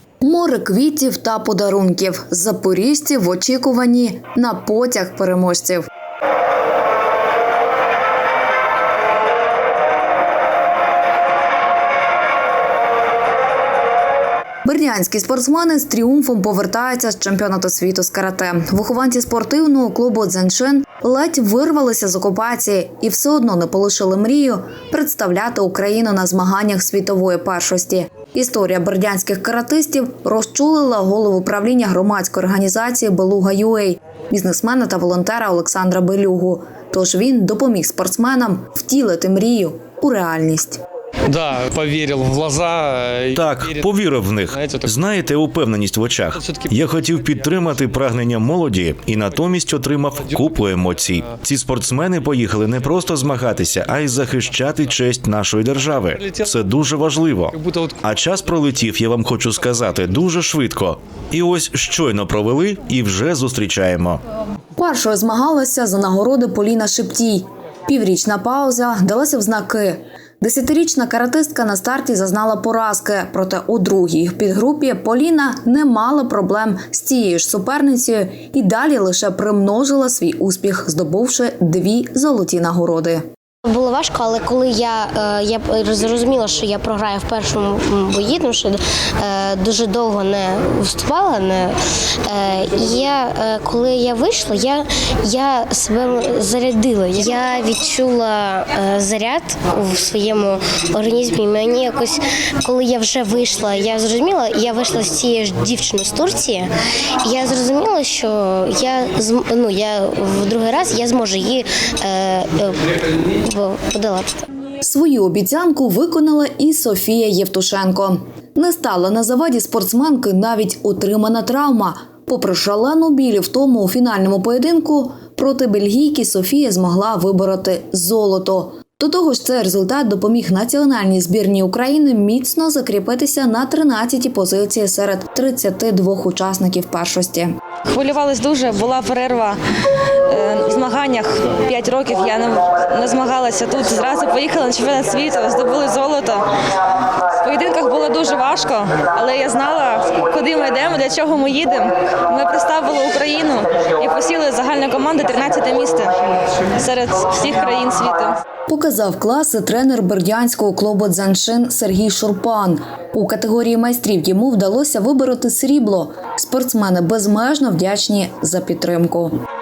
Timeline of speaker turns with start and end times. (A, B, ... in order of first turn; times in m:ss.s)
0:00.2-0:05.9 A
0:14.6-0:40.8 A
0:41.3-0:44.0 B
0:43.3-1:04.2 C
0:44.5-0:45.0 B
0:46.4-0:48.1 B
0:50.4-0:51.2 B
0:56.1-0:56.6 B
0:57.5-0:58.0 B
1:04.8-1:23.2 A
1:23.7-1:31.8 D
1:32.3-1:46.7 D
1:47.2-1:52.8 D
1:53.4-1:54.3 D
1:54.8-2:17.5 A
2:17.9-2:19.6 E
2:20.3-2:26.5 E
2:27.3-2:36.2 E
2:36.8-2:38.4 E
2:38.7-2:49.3 A